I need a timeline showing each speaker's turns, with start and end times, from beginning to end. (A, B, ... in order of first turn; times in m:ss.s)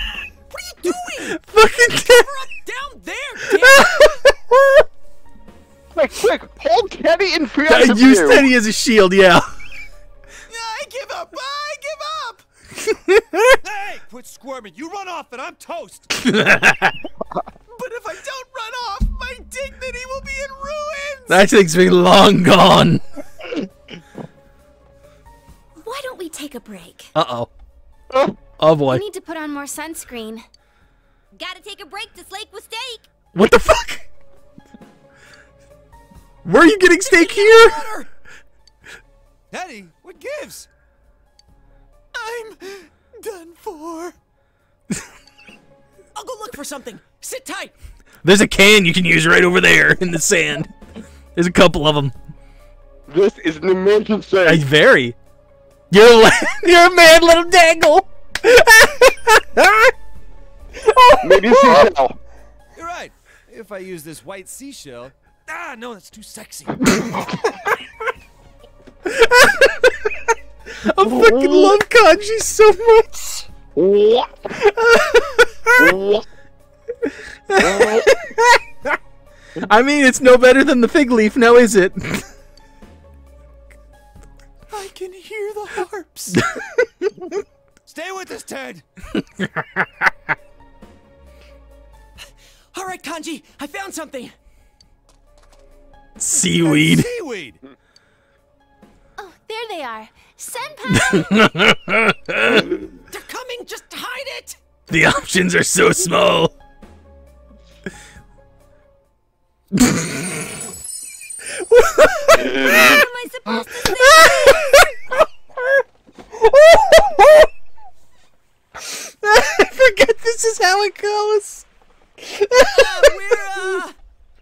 0:00.5-0:04.2 A
0:01.2-0:02.4 B
0:03.5-0:04.8 B
0:05.9-0:08.5 C
0:07.7-0:09.5 B
0:10.5-0:12.4 D
0:12.8-0:13.6 B
0:13.6-0:16.1 E
0:16.1-0:17.1 B
0:17.7-0:21.5 D
0:21.3-0:23.6 B
0:25.8-0:27.1 F
0:27.1-0:27.5 B
0:28.1-0:28.4 C
0:28.6-0:29.0 B
0:28.9-0:30.4 F
0:31.3-0:33.1 F
0:33.3-0:34.1 B
0:36.4-0:37.9 B
0:37.0-0:38.1 A
0:39.5-0:40.7 E
0:42.1-0:44.2 D
0:46.1-0:47.7 A
0:48.2-0:50.7 B
0:51.3-0:52.1 B
0:53.1-0:54.6 C
0:54.4-0:55.1 B
0:55.9-0:59.9 B
1:00.8-1:01.9 B
1:01.2-1:02.2 C
1:02.8-1:07.3 E
1:09.0-1:13.5 B
1:11.3-1:11.7 C
1:13.7-1:14.6 C
1:14.5-1:16.0 B
1:15.8-1:16.2 C
1:17.0-1:19.0 B
1:17.6-1:18.1 C
1:19.6-1:22.3 B
1:24.7-1:26.5 D
1:26.3-1:27.4 B
1:27.8-1:28.8 E
1:29.1-1:30.1 B
1:32.7-1:34.3 A
1:36.2-1:37.1 B
1:36.4-1:37.6 E
1:39.2-1:41.3 F
1:40.9-1:42.8 B
1:43.1-1:44.6 A
1:44.9-1:46.5 B
1:49.7-1:50.5 B
1:51.5-1:53.1 B
1:52.3-1:54.9 F
1:53.6-1:55.2 B
1:56.4-1:57.5 B
1:58.8-2:01.6 B
2:02.2-2:03.7 B
2:02.5-2:04.0 A